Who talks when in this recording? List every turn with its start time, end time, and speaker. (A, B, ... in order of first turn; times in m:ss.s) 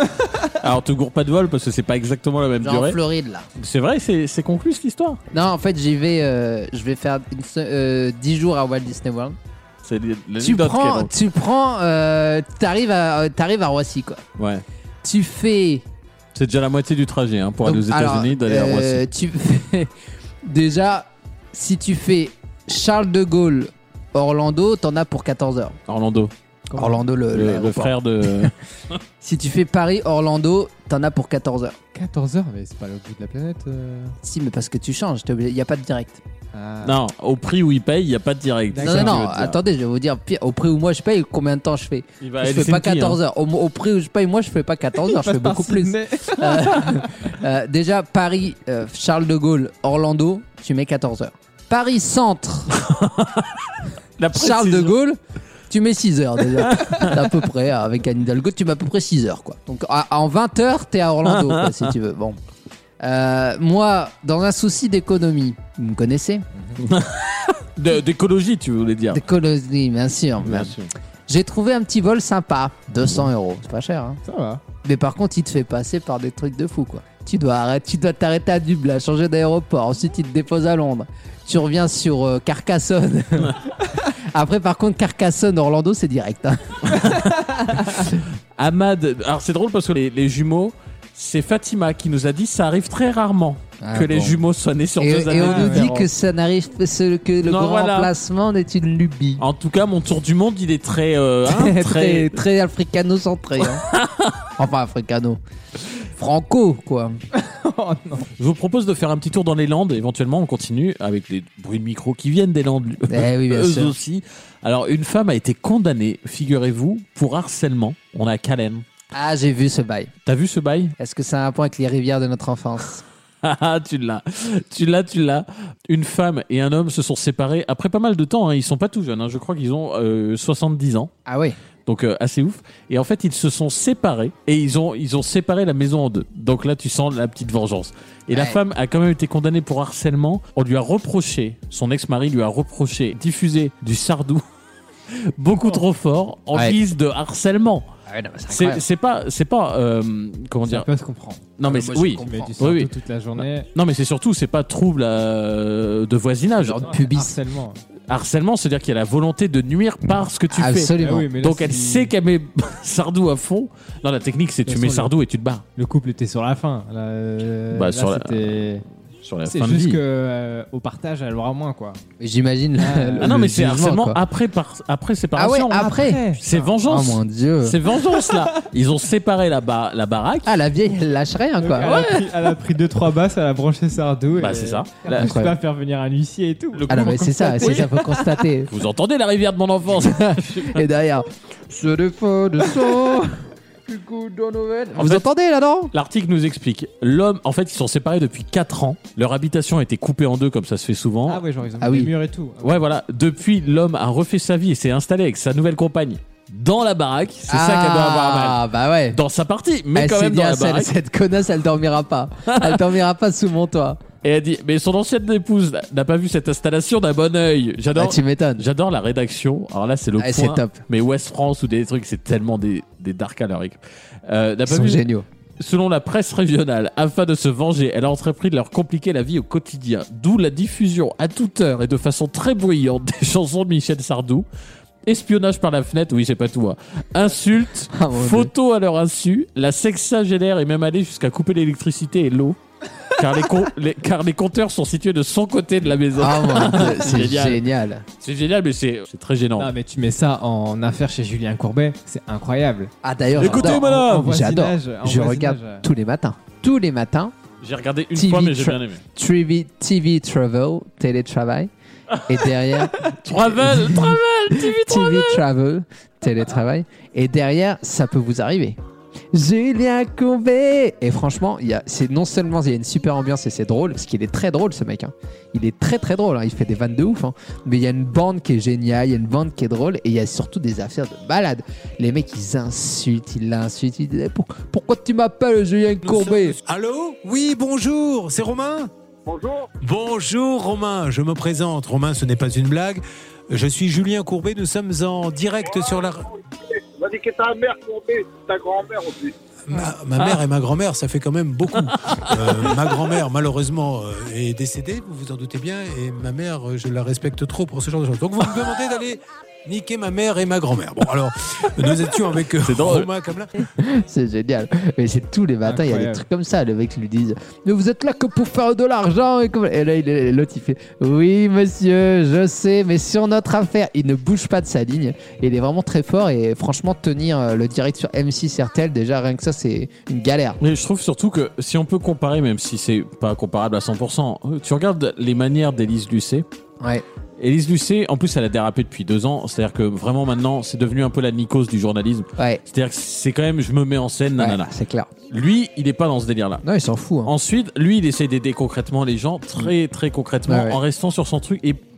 0:00.6-0:03.0 A
0:02.6-0:03.4 B
0:03.6-0:05.2 A
0:05.3-0:09.4 B
0:09.8-0:11.1 A
0:10.4-0:14.2 B
0:14.4-0:14.6 A
0:15.0-0:15.8 B
0:16.3-0:19.0 A
0:17.6-0:19.9 B
0:20.4-0:25.8 B
0:25.9-0:26.3 A
0:26.7-0:27.0 C
0:26.7-0:28.4 B
0:27.3-0:28.5 A
0:29.2-0:31.8 B
0:31.9-0:34.1 C
0:34.2-0:36.2 B
0:36.5-0:37.0 C
0:36.8-0:39.6 A
0:38.7-0:39.3 C
0:38.8-0:52.7 B
0:42.2-0:43.2 A
0:45.0-0:47.0 C
0:52.8-0:53.5 A
0:54.2-0:55.0 A
0:54.3-0:55.2 B
0:55.7-1:02.4 B
0:56.6-0:57.2 A
1:01.3-1:01.9 A
1:03.0-1:06.4 B
1:06.5-1:06.8 C
1:06.8-1:09.2 A
1:09.1-1:10.7 B
1:10.4-1:10.9 A
1:11.3-1:14.2 B
1:14.2-1:14.6 C
1:14.8-1:23.6 B
1:24.3-1:27.1 B
1:26.9-1:27.3 A
1:28.6-1:36.0 A
1:33.8-1:34.4 B
1:35.0-1:39.4 B
1:35.3-1:36.1 C
1:37.4-1:38.1 A
1:39.4-1:42.4 A
1:41.5-1:43.8 B
1:43.8-1:44.3 A
1:44.6-1:45.4 B
1:46.2-1:47.2 B
1:47.4-1:48.3 C
1:48.4-1:58.8 A
1:53.1-1:53.9 B
1:59.1-2:00.1 B
2:00.2-2:00.9 A
2:01.0-2:03.0 B
2:03.4-2:11.1 A
2:11.3-2:11.6 B
2:11.8-2:24.4 A
2:18.3-2:18.6 B
2:25.1-2:27.9 A
2:28.1-2:28.8 B
2:28.5-2:30.9 A
2:30.6-2:31.5 C
2:31.6-2:36.9 A
2:31.6-2:32.5 B
2:32.2-2:33.7 C
2:36.6-2:37.3 B
2:36.7-2:37.8 C
2:38.1-2:45.6 A
2:40.5-2:41.3 B
2:41.0-2:42.1 C
2:44.6-2:45.1 C
2:45.8-2:48.8 C
2:47.7-2:48.6 A
2:49.2-2:50.0 A
2:49.5-2:52.0 C
2:52.2-2:54.2 B
2:52.8-2:53.3 C
2:53.2-3:00.5 A
2:55.4-2:56.2 B
2:55.8-2:56.7 C
2:56.8-2:57.7 B
2:58.2-2:58.6 C
3:00.4-3:02.1 B
3:01.6-3:08.3 C
3:04.4-3:05.3 A
3:05.1-3:05.5 B
3:06.7-3:07.9 A
3:06.9-3:08.7 B
3:08.7-3:10.8 A
3:10.1-3:15.9 B
3:15.0-3:15.3 A
3:15.9-3:21.4 A
3:21.3-3:22.8 C
3:21.8-3:22.1 B
3:22.6-3:28.6 A
3:27.5-3:29.2 B
3:29.1-3:30.9 A
3:29.9-3:34.0 B
3:32.5-3:32.9 A
3:34.2-3:45.0 A
3:38.0-3:38.6 B
3:40.2-3:40.8 B
3:44.7-3:45.2 B
3:45.6-3:54.4 A
3:55.0-4:02.6 A
3:57.9-3:58.5 B
4:03.2-4:07.6 A
4:06.2-4:08.0 B
4:08.2-4:09.7 A
4:09.6-4:15.8 C
4:13.0-4:17.3 B
4:13.4-4:14.3 A
4:17.6-4:19.0 A
4:18.1-4:21.7 B
4:22.1-4:25.4 A
4:22.3-4:28.8 B
4:29.3-4:46.6 B
4:46.0-4:48.9 D
4:49.2-4:49.7 E
4:49.8-4:56.2 D
4:55.6-4:59.3 E
4:59.7-5:13.5 D
5:01.8-5:02.5 A
5:12.6-5:13.1 A
5:13.6-5:30.6 B
5:15.6-5:16.2 C
5:30.6-5:36.4 A
5:37.4-5:44.7 A
5:44.4-5:45.1 B
5:45.3-5:46.6 A
5:46.6-5:47.3 B
5:47.2-5:51.8 A
5:50.5-5:50.8 B